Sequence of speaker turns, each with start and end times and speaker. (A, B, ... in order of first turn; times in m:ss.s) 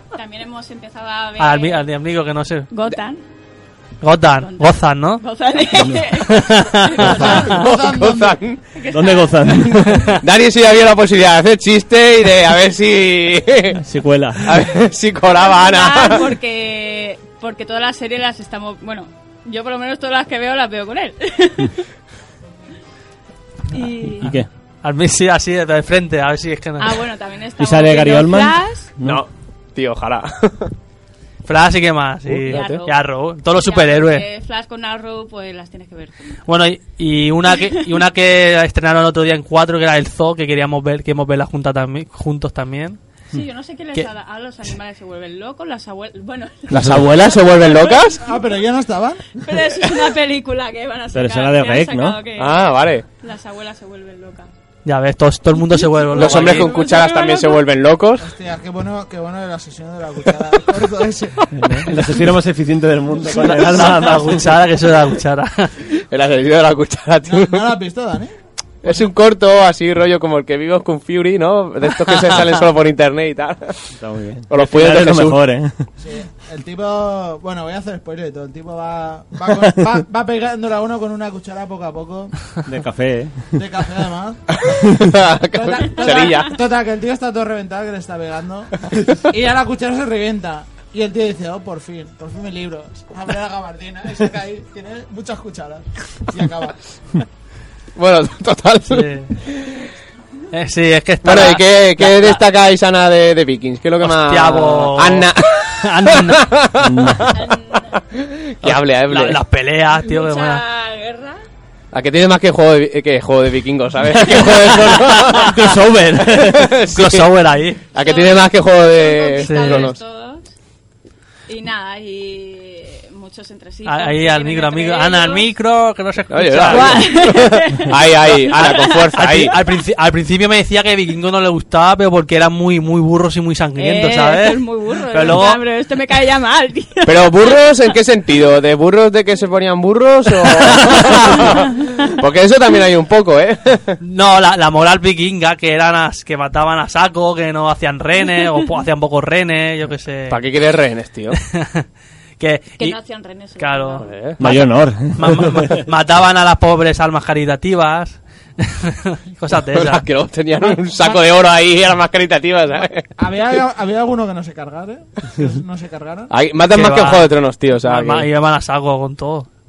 0:00.1-0:01.9 A
0:01.4-0:02.7 B
0:02.7-0:03.2 A
0:04.0-0:05.2 B
0:04.4-0:07.6 A
0:06.2-0:07.4 B
0:07.0-0:08.4 C
0:07.2-0:08.6 D
0:08.7-0:10.0 A
0:08.9-0:10.2 E
0:10.0-0:13.8 D
0:13.8-0:14.7 E
0:14.4-0:16.3 D
0:15.4-0:21.8 A
0:23.7-0:24.4 A
0:24.2-0:24.5 E
0:24.2-0:27.0 B
0:26.8-0:28.9 A
0:27.6-0:29.2 E
0:29.0-0:30.7 D
0:31.5-0:34.2 B
0:32.4-0:32.8 D
0:32.5-0:36.4 A
0:36.5-0:43.0 B
0:37.5-0:38.0 A
0:43.3-0:48.4 A
0:46.7-0:48.2 D
0:46.7-0:47.1 E
0:48.2-0:49.3 C
0:49.4-0:52.6 A
0:51.1-0:52.2 E
0:52.4-0:53.0 D
0:53.2-0:54.5 A
0:54.9-0:56.7 B
0:55.6-0:57.7 A
0:56.1-0:58.3 D
0:58.2-1:02.1 C
1:01.5-1:04.6 E
1:03.3-1:05.7 B
1:05.9-1:07.7 D
1:07.2-1:08.3 C
1:08.8-1:13.9 D
1:14.0-1:15.9 E
1:14.5-1:15.4 D
1:16.0-1:22.6 C
1:19.5-1:19.8 E
1:22.6-1:23.6 E
1:23.5-1:24.4 C
1:24.5-1:26.6 D
1:25.5-1:36.8 C
1:26.0-1:26.5 A
1:38.0-1:39.7 D
1:38.9-1:39.4 B
1:40.5-1:42.4 B
1:41.2-1:49.4 D
1:44.0-1:46.5 B
1:46.8-1:47.4 E
1:47.3-1:48.0 A
1:48.6-1:50.6 B
1:49.9-1:51.4 A
1:51.9-1:57.3 D
1:54.5-1:56.8 E
1:56.9-1:57.8 B
1:57.9-2:00.0 D
1:57.9-2:00.5 A
1:59.4-1:59.9 B
2:01.5-2:05.5 A
2:03.8-2:07.1 B
2:06.3-2:09.6 D
2:06.7-2:09.6 A
2:08.5-2:15.6 B
2:13.8-2:17.7 A
2:17.1-2:24.0 D
2:20.6-2:21.5 B
2:21.5-2:22.1 A
2:24.0-2:30.4 B
2:30.3-2:31.4 D
2:31.5-2:31.9 B
2:32.4-2:33.0 B
2:32.8-2:34.1 A
2:33.6-2:40.0 B
2:34.0-2:34.4 D
2:34.4-2:35.8 E
2:39.7-2:43.1 D
2:43.2-2:46.3 C
2:46.3-2:48.3 D
2:46.7-2:49.5 B